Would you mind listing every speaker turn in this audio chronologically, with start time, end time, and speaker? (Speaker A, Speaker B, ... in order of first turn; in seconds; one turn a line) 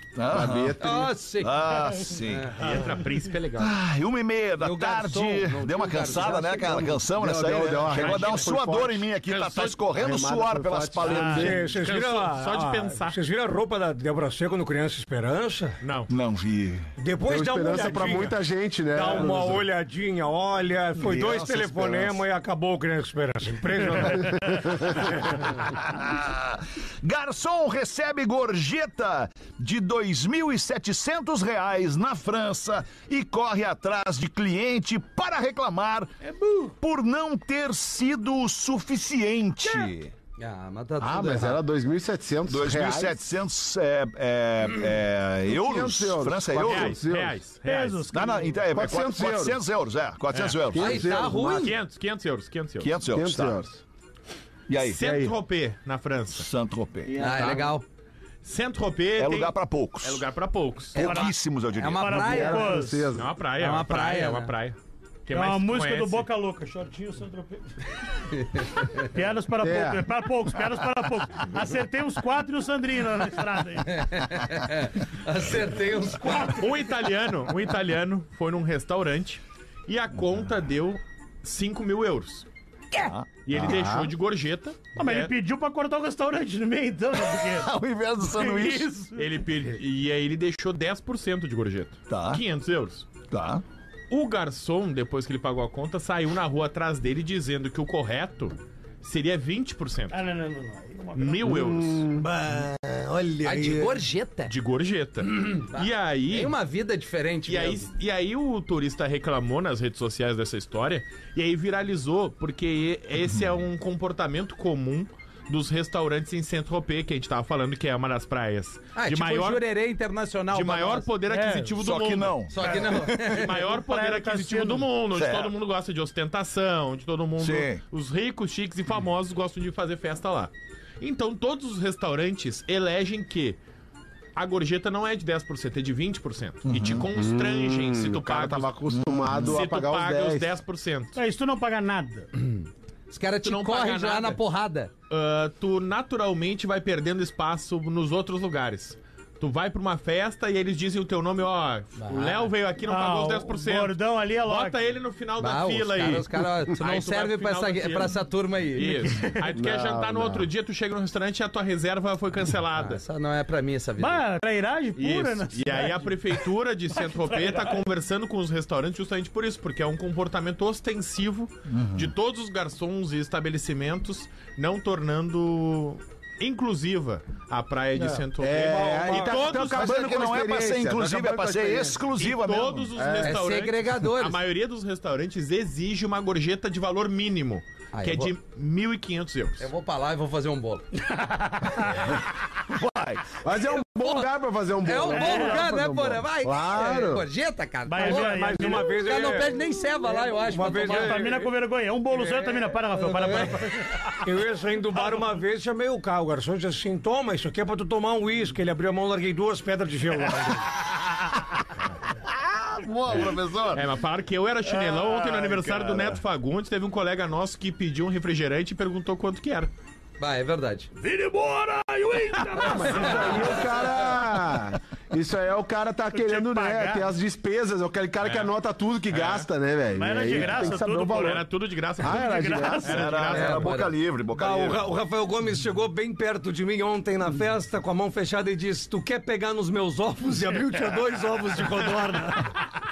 Speaker A: 0.1-0.8
Speaker B: 0.3-1.1
Speaker C: 0.8-2.8
Speaker A: 1.4-2.7
Speaker D: 2.6-3.8
Speaker A: 3.6-11.5
Speaker C: 4.6-7.0
Speaker B: 7.1-9.1
Speaker D: 7.9-8.6
Speaker D: 9.2-9.8
Speaker B: 9.9-11.6
Speaker E: 11.1-11.5
Speaker F: 11.2-15.8
Speaker D: 11.4-13.2
Speaker D: 15.8-16.1
Speaker A: 16.1-16.9
Speaker F: 17.0-18.4
Speaker B: 17.2-19.6
Speaker F: 18.9-25.0
Speaker A: 21.0-22.2
Speaker A: 24.8-36.1
Speaker E: 36.3-36.7
Speaker A: 36.8-40.1
Speaker C: 39.6-41.6
Speaker B: 41.0-43.2
Speaker A: 42.5-47.0
Speaker B: 45.5-47.4
Speaker D: 46.5-48.1
Speaker E: 47.6-48.6
Speaker A: 48.1-51.1
Speaker B: 48.7-49.6
Speaker D: 50.3-50.6
Speaker B: 50.7-51.8
Speaker C: 50.8-51.7
Speaker D: 51.4-52.9
Speaker A: 52.8-53.6
Speaker B: 53.1-53.8
Speaker A: 54.7-55.0
Speaker D: 54.8-56.5
Speaker B: 55.0-55.3
Speaker A: 56.3-57.1
Speaker E: 57.1-57.7
Speaker C: 57.1-57.8
Speaker D: 58.4-61.0
Speaker A: 59.2-60.2
Speaker A: 60.9-62.4
Speaker C: 60.9-62.8
Speaker E: 61.0-61.3
Speaker E: 61.9-63.1
Speaker B: 62.2-63.3
Speaker D: 63.1-66.3
Speaker C: 63.6-64.5
Speaker E: 65.3-67.7
Speaker E: 69.0-74.1
Speaker B: 69.6-70.1
Speaker C: 73.9-76.6
Speaker E: 76.2-76.7
Speaker D: 76.6-82.5
Speaker A: 82.9-84.1
Speaker D: 83.5-85.3
Speaker E: 84.9-87.7
Speaker A: 87.4-88.9
Speaker E: 88.2-89.3
Speaker D: 89.2-93.1
Speaker A: 92.1-92.4
Speaker A: 93.3-93.6
Speaker D: 94.1-100.2
Speaker E: 100.1-101.5
Speaker D: 101.1-102.1
Speaker B: 101.5-102.3
Speaker F: 102.1-104.0
Speaker C: 103.4-104.5
Speaker D: 104.5-106.5
Speaker C: 105.4-107.9
Speaker D: 107.5-119.6
Speaker A: 113.2-113.5
Speaker C: 118.9-121.1
Speaker D: 120.5-133.6
Speaker E: 121.3-121.7
Speaker A: 121.8-122.8
Speaker C: 122.5-123.5
Speaker E: 122.7-124.9
Speaker A: 125.1-125.5
Speaker A: 127.4-127.8
Speaker D: 134.3-138.7
Speaker A: 136.7-137.0
Speaker B: 137.1-140.6
Speaker A: 138.9-139.6
Speaker D: 139.3-141.2
Speaker E: 141.1-142.3
Speaker C: 143.1-144.9
Speaker D: 143.4-144.4
Speaker D: 145.1-158.2
Speaker C: 152.0-152.5
Speaker E: 152.8-154.8
Speaker C: 155.4-159.2
Speaker D: 158.7-163.0
Speaker E: 159.0-159.5
Speaker B: 159.5-160.5
Speaker C: 162.7-164.2
Speaker E: 164.0-167.8
Speaker D: 165.0-179.9
Speaker A: 171.7-172.1
Speaker F: 178.0-179.5
Speaker B: 178.4-182.1
Speaker A: 179.6-182.9
Speaker D: 182.2-189.7
Speaker B: 182.9-183.4
Speaker C: 183.2-184.4
Speaker C: 187.9-188.3
Speaker C: 189.6-190.8
Speaker E: 191.1-192.1
Speaker A: 192.7-193.3
Speaker B: 193.4-197.2
Speaker C: 194.0-194.3
Speaker C: 194.8-201.3
Speaker E: 195.1-195.7
Speaker E: 197.8-199.1
Speaker F: 198.0-201.5
Speaker E: 200.6-204.2
Speaker C: 203.0-203.5
Speaker F: 204.2-210.7
Speaker A: 212.2-213.8
Speaker D: 213.7-219.7
Speaker A: 214.7-216.2
Speaker C: 220.2-220.9
Speaker E: 221.0-223.9
Speaker B: 222.6-231.4
Speaker E: 226.1-227.1
Speaker D: 228.2-228.5
Speaker D: 229.1-229.5
Speaker E: 229.9-231.4
Speaker D: 230.3-233.7
Speaker B: 232.0-233.0
Speaker E: 232.0-233.2
Speaker A: 232.8-234.9
Speaker C: 233.3-233.9
Speaker F: 234.3-242.5